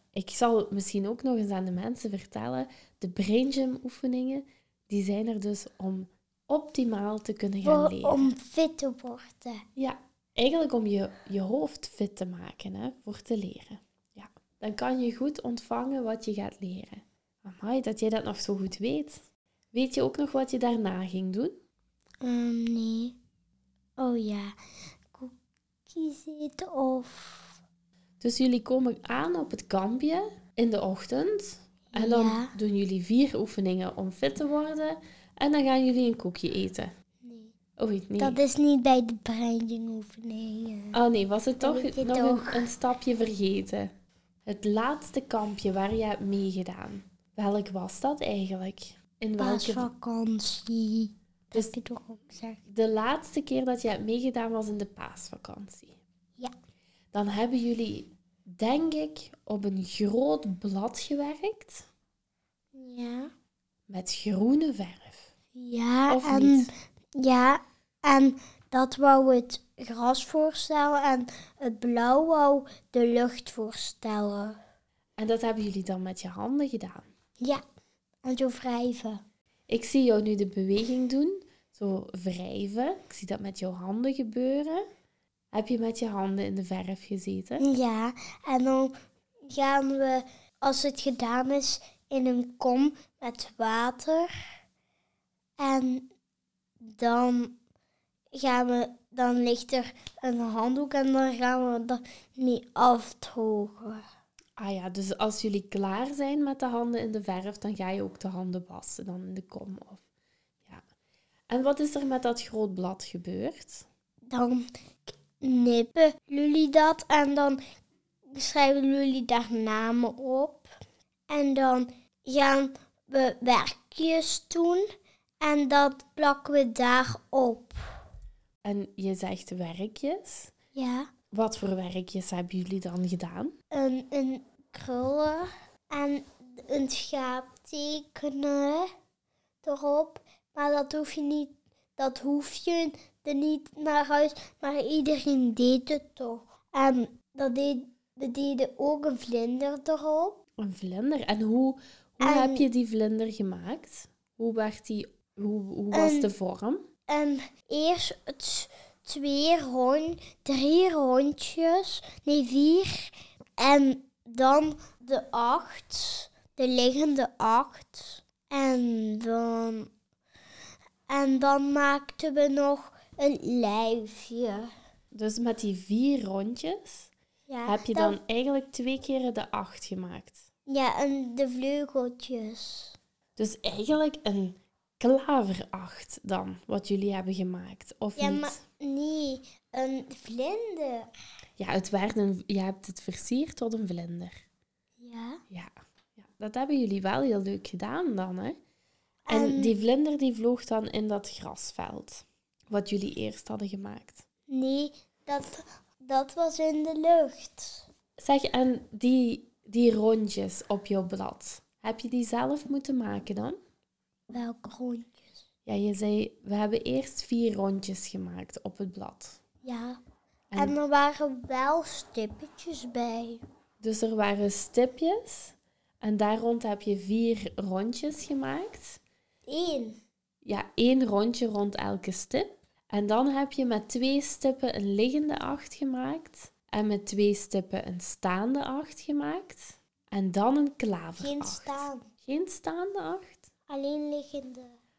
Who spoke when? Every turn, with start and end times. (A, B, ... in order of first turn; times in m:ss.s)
0:00.1-0:08.3 A
0:07.6-0:09.6 B
0:09.8-0:19.2 A
0:19.7-0:21.6 A
0:22.2-0:23.2 B
0:24.0-0:24.6 B
0:25.9-0:27.6 B
0:28.2-0:36.9 A
0:31.9-0:32.5 B
0:37.2-0:37.5 B
0:37.8-0:38.4 A
0:38.2-0:41.0 B
0:40.9-0:43.9 A
0:41.6-0:42.7 B
0:44.4-0:49.9 A
0:49.4-0:52.6 B
0:52.7-0:56.0 A
0:57.1-1:01.9 A
1:02.7-1:03.3 B
1:03.9-1:05.3 A
1:05.6-1:14.6 B
1:06.1-1:06.7 A
1:15.2-1:17.1 A
1:18.2-1:19.2 B
1:19.7-1:24.9 A
1:25.5-1:27.6 A
1:27.6-1:34.3 B
1:35.6-1:36.1 B
1:36.8-1:37.6 B
1:38.3-1:44.0 B
1:44.6-1:50.0 A
1:51.5-1:53.9 A
1:54.3-1:57.6 B
1:58.3-2:00.7 B
2:01.3-2:04.8 B
2:05.4-2:07.8 B
2:08.6-2:10.5 A
2:10.7-2:11.1 B
2:11.3-2:13.5 A
2:13.7-2:18.9 B
2:19.6-2:30.4 B
2:30.6-2:36.8 A
2:32.2-2:32.6 B
2:35.9-2:36.3 B
2:37.1-2:49.9 B
2:51.1-2:54.7 B
2:55.1-2:57.1 A
2:57.5-2:58.2 B
2:57.7-3:00.4 A
3:00.7-3:03.0 B
3:03.4-3:08.6 A
3:08.2-3:11.1 B
3:11.6-3:14.4 A
3:15.0-3:15.4 B
3:15.5-3:18.6 A
3:19.3-3:19.7 B
3:19.3-3:24.2 A
3:24.5-3:27.9 B
3:28.2-3:33.6 A
3:34.3-3:35.4 B
3:35.6-3:39.4 A
3:39.6-3:40.0 B
3:40.6-3:43.4 B
3:43.8-3:49.0 A
3:49.5-3:50.0 B
3:50.4-4:03.5 A
4:01.2-4:02.1 B
4:03.7-4:04.7 B